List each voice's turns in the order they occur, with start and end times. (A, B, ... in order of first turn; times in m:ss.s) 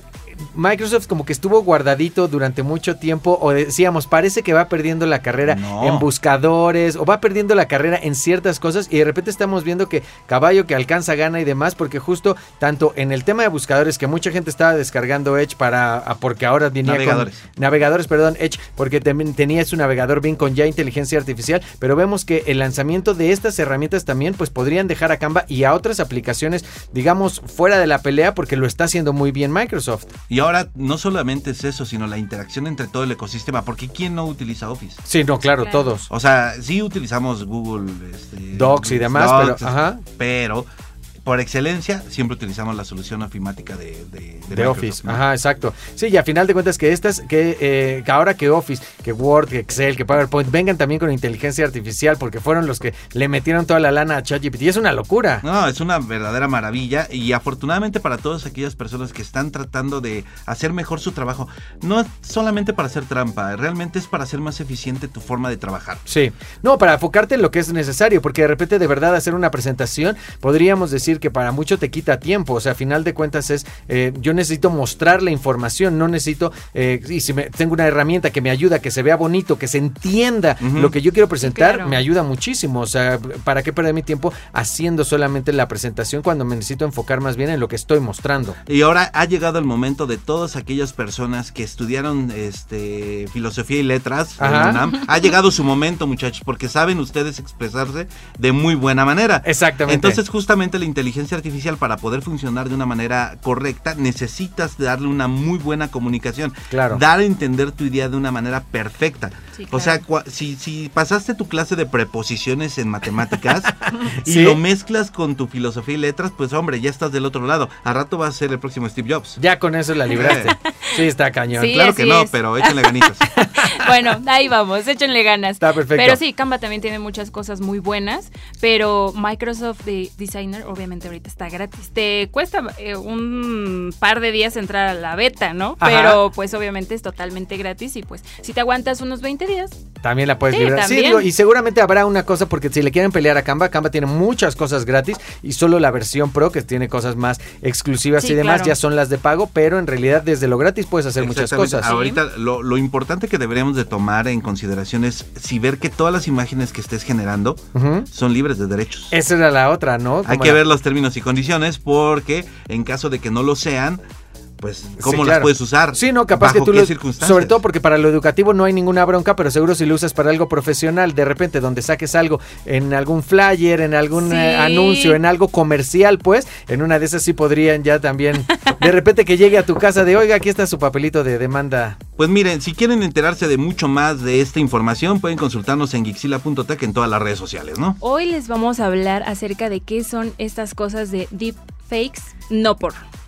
0:00.4-0:30.1 A
0:05.5-0:06.1 B
0:16.8-0:17.4 B
0:30.3-0:35.0 B
0:35.1-0:36.1 A
0:35.6-0:35.9 C
0:36.1-0:40.7 B
0:38.5-0:40.0 A
0:41.2-0:45.2 B
0:44.5-0:55.4 A
0:55.4-1:06.0 B
1:06.1-1:28.6 A
1:20.6-1:20.9 B
1:21.4-1:22.0 C
1:28.7-1:59.4 B
1:34.4-1:34.8 A
1:39.4-1:40.2 A
1:46.7-1:47.0 A
1:49.6-1:50.0 C
1:53.7-1:54.6 A
1:59.4-2:01.8 A
2:00.1-2:00.5 B
2:00.2-2:01.0 C
2:01.5-2:19.8 C
2:01.7-2:03.3 B
2:03.4-2:03.9 A
2:05.6-2:06.2 A
2:15.8-2:16.2 A
2:20.0-2:31.9 A
2:20.5-2:21.3 C
2:28.2-2:28.8 C
2:31.2-2:39.1 B
2:31.8-2:32.2 C
2:37.7-2:38.1 A
2:39.1-2:40.6 A
2:40.2-2:44.0 B
2:44.6-2:47.6 B
2:45.0-3:02.0 A
2:54.2-2:55.2 C
3:02.2-3:08.0 B
3:08.0-3:13.0 C